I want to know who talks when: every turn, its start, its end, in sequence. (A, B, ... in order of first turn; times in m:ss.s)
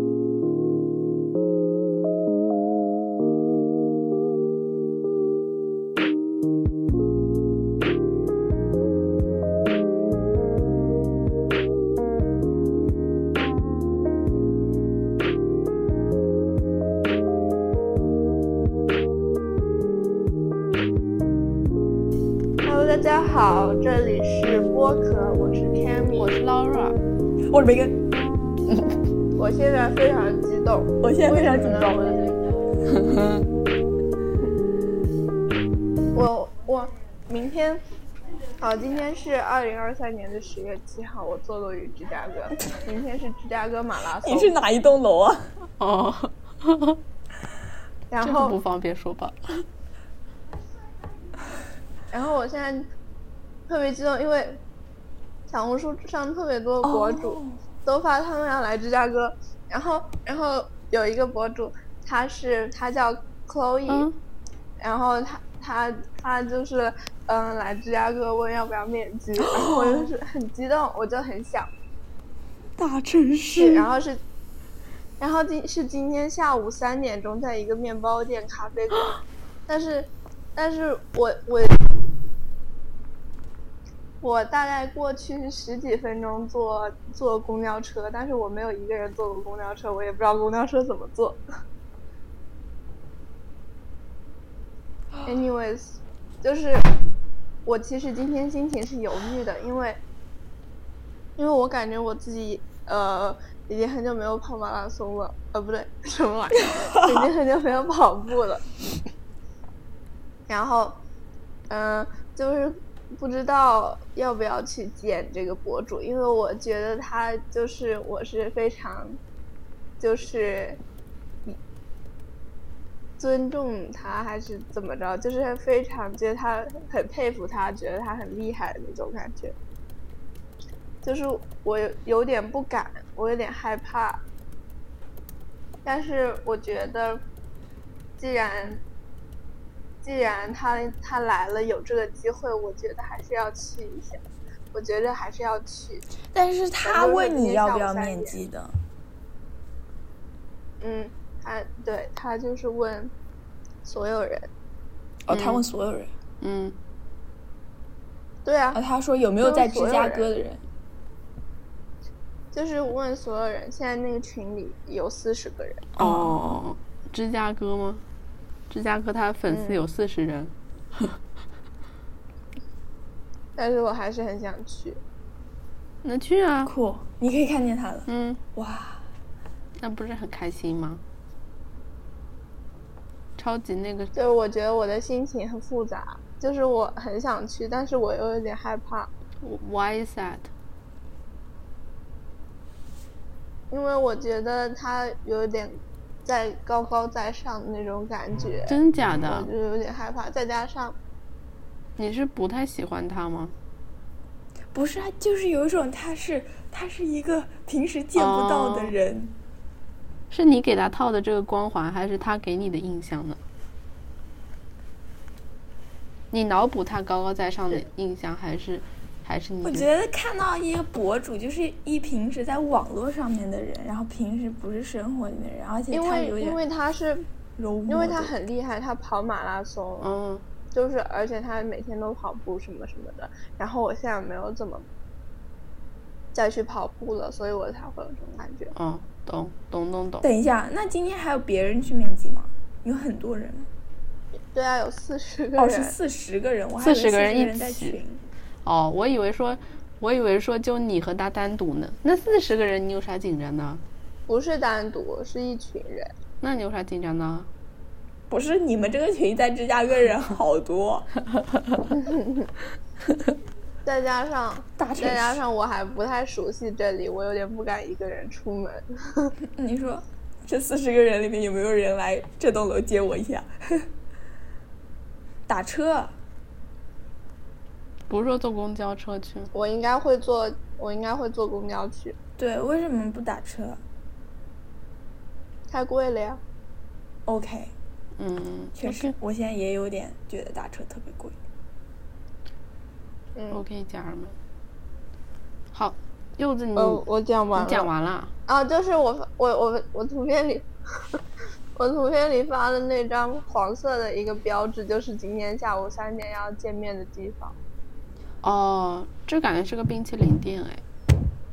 0:22.6-0:26.3 A
0:26.2-0:27.0 B
0:27.5-0:27.9 C
0:29.4-0:32.2 A
0:31.0-0:32.1 C
0:32.9-0:33.4 B
0:36.1-0:37.8 A
0:38.6-0:44.5 A
0:44.2-0:45.5 C
0:45.8-0:47.0 B
0:48.1-0:48.6 A
0:48.2-0:49.6 B
0:52.1-0:52.9 A
0:53.7-0:54.6 A
0:55.5-1:04.1 A
0:56.8-0:57.6 C
1:03.9-1:04.2 B
1:04.8-1:11.7 A
1:09.4-1:10.1 C
1:12.8-1:13.9 C
1:13.6-1:14.2 A
1:15.2-1:21.9 A
1:24.2-1:31.4 A
1:35.2-1:36.9 A
1:37.6-1:40.0 A
1:41.4-1:48.6 A
1:50.5-1:51.0 A
1:51.7-1:59.2 A
2:00.0-2:00.8 A
2:03.2-2:09.5 A
2:11.0-2:14.2 A
2:15.8-2:17.2 A
2:18.2-2:18.8 A
2:20.0-2:26.0 A
2:26.3-2:28.8 C
2:26.8-2:28.4 A
2:30.8-2:33.1 A
2:33.8-2:34.5 A
2:35.3-2:36.1 C
2:35.3-2:35.6 B
2:36.4-2:36.8 B
2:38.4-2:38.8 A
2:38.7-2:40.6 C
2:39.4-2:40.3 A
2:42.5-2:45.9 A
2:46.0-2:46.6 C
2:46.0-2:48.0 B
2:48.7-2:51.2 B
2:49.5-2:49.8 A
2:53.6-2:55.0 A
2:56.0-2:56.7 B
2:56.6-2:59.1 C
2:58.1-2:58.4 B
2:59.8-3:01.0 B
3:03.4-3:04.1 B
3:04.1-3:09.1 A
3:09.4-3:10.5 B
3:13.7-3:21.0 A
3:18.7-3:19.5 B
3:22.0-3:23.5 B
3:24.7-3:29.3 C
3:28.2-3:28.9 B
3:30.3-3:33.4 B
3:36.3-3:39.9 B
3:39.6-3:46.6 C
3:45.9-3:47.3 A
3:47.6-3:48.3 C
3:47.9-3:50.1 A
3:50.0-3:50.4 B
3:50.7-3:54.8 A
3:56.3-3:58.7 A
3:58.7-4:00.3 B
4:00.2-4:03.7 C
4:04.5-4:05.9 A
4:05.6-4:08.2 C
4:06.8-4:08.0 B
4:08.6-4:13.8 B
4:14.3-4:16.1 A
4:16.4-4:17.5 B
4:18.3-4:21.1 C
4:22.0-4:22.4 A
4:23.8-4:29.3 A
4:24.8-4:25.4 C
4:29.6-4:33.8 C
4:35.5-4:36.1 C
4:38.1-4:39.5 B
4:39.5-4:42.2 A
4:42.4-4:43.8 C
4:45.7-4:46.4 A
4:47.2-4:47.7 C
4:48.2-4:49.1 B
4:48.8-4:51.4 C
4:53.3-4:53.6 A
4:53.5-4:54.4 B
4:55.7-4:57.0 B
4:56.7-4:57.9 A
4:57.5-4:58.3 B
4:58.5-5:01.2 A
5:01.8-5:07.6 A
5:08.4-5:10.8 B